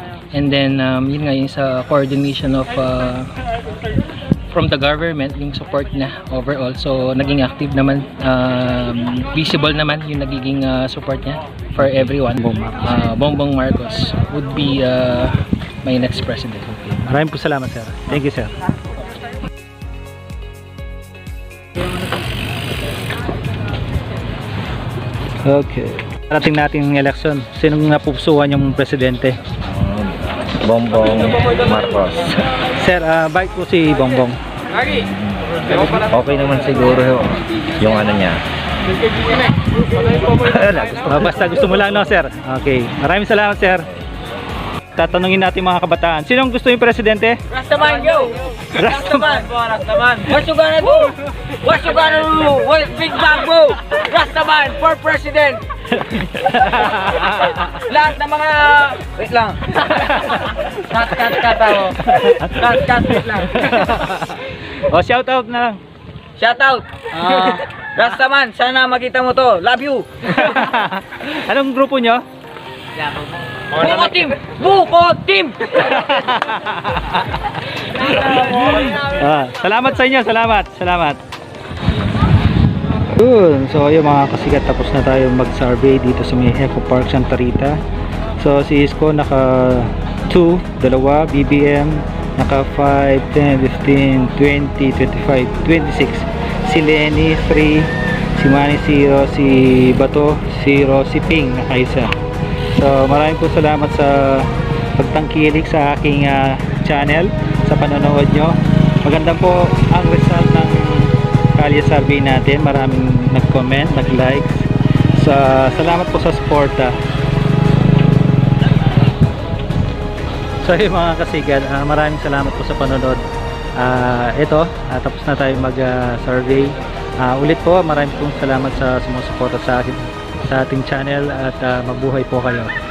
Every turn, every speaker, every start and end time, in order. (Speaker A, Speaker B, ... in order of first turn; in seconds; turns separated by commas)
Speaker A: 0.3-3.3, Speaker A: 4.5-17.0, Speaker B: 12.4-12.8, Speaker B: 17.1-18.5, Speaker B: 25.4-29.4, Speaker C: 30.8-32.0, Speaker B: 32.8-34.4, Speaker C: 36.2-36.9, Speaker C: 37.8-38.3, Speaker B: 41.1-43.8, Speaker B: 44.9-47.4, Speaker D: 47.5-48.3, Speaker B: 48.8-49.3, Speaker D: 48.8-51.1, Speaker D: 51.6-55.6, Speaker B: 56.1-57.2, Speaker D: 57.9-59.5, Speaker D: 61.0-61.9, Speaker B: 62.1-65.8, Speaker D: 62.6-63.3, Speaker D: 66.4-70.1, Speaker B: 70.4-72.2, Speaker D: 73.8-75.5, Speaker B: 75.8-77.2, Speaker B: 78.0-81.2, Speaker B: 83.1-87.8, Speaker B: 88.4-102.1, Speaker B: 102.7-117.0, Speaker B: 120.6-123.2, Speaker B: 123.8-132.7